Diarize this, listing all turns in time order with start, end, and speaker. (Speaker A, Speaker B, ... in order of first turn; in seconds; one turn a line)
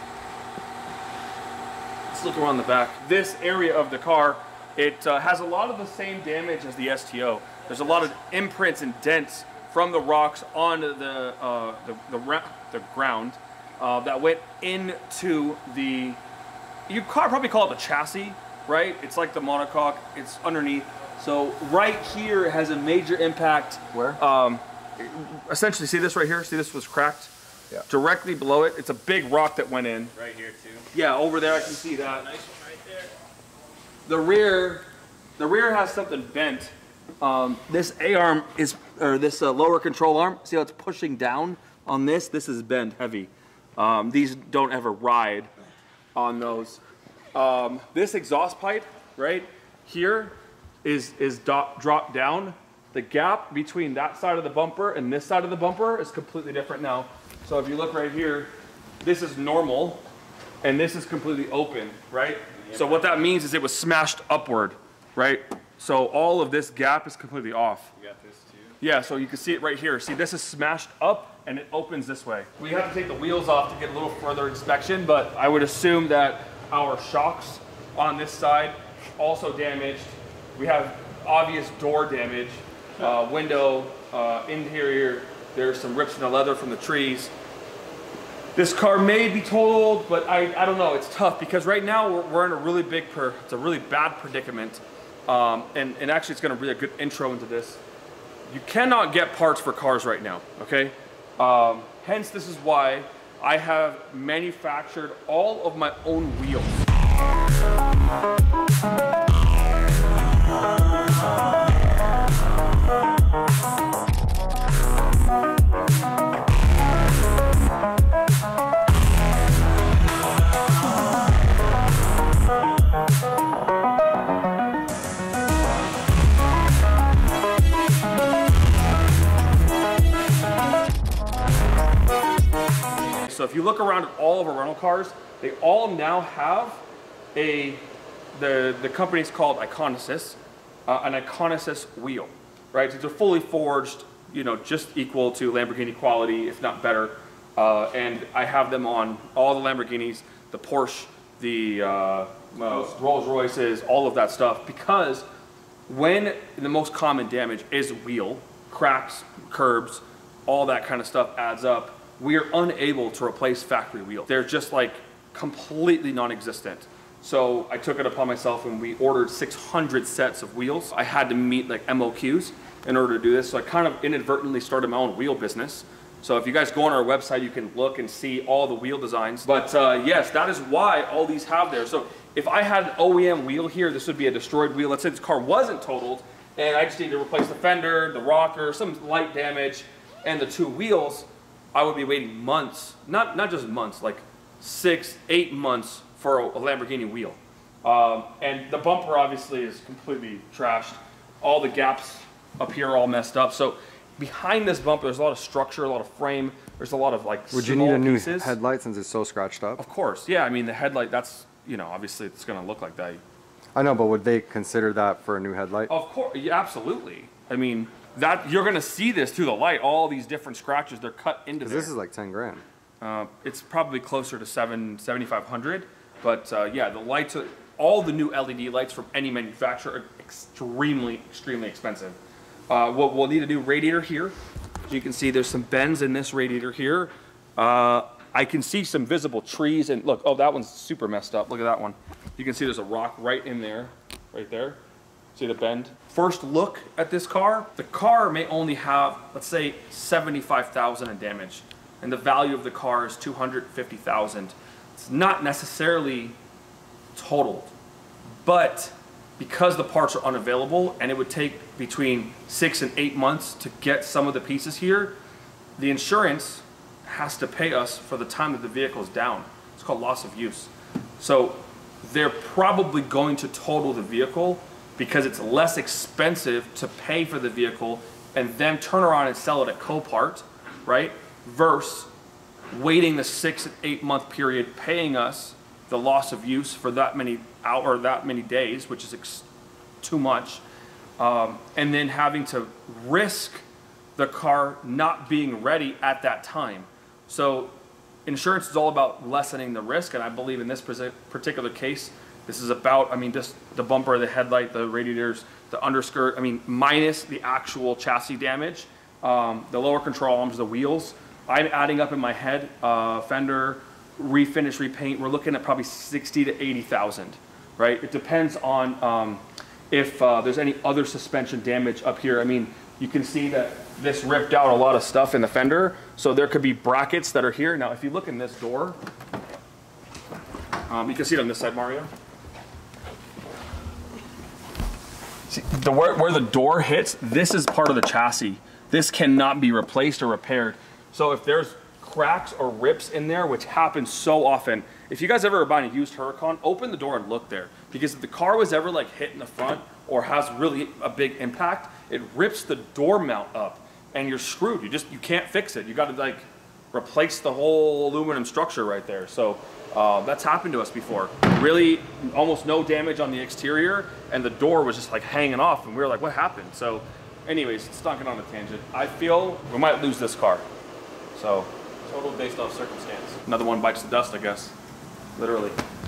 Speaker A: 2.1-16.2
Speaker A: 16.9-27.3
Speaker B: 23.9-24.2
Speaker A: 27.9-30.1
Speaker C: 30.1-30.9
Speaker A: 30.9-32.3
Speaker C: 32.0-33.1
Speaker A: 34.0-34.8
Speaker A: 35.4-45.5
Speaker A: 46.1-46.8
Speaker A: 47.3-60.0
Speaker A: 60.6-67.9
Speaker C: 62.5-63.2
Speaker C: 68.0-68.7
Speaker A: 68.8-87.3
Speaker A: 88.5-97.8
Speaker A: 98.5-106.9
Speaker A: 133.3-136.8
Speaker A: 137.3-155.2
Speaker A: 155.9-208.6
Speaker B: 207.5-209.8
Speaker A: 209.8-213.2
Speaker B: 213.7-215.9
Speaker A: 215.9-221.9
Speaker B: 221.6-222.6
Speaker A: 223.0-232.2
Speaker A: 232.7-234.3
Speaker A: 234.9-244.8
Speaker A: 245.3-256.4
Speaker A: 257.1-257.7
Speaker A: 258.4-265.2
Speaker A: 265.8-282.1
Speaker A: 282.7-289.4
Speaker A: 290.0-290.6
Speaker A: 291.2-293.6
Speaker A: 294.2-297.7
Speaker A: 298.2-329.0
Speaker A: 330.9-332.1
Speaker A: 335.5-370.6
Speaker A: 371.3-371.7
Speaker C: 372.0-373.4
Speaker A: 373.4-374.7
Speaker A: 375.4-375.8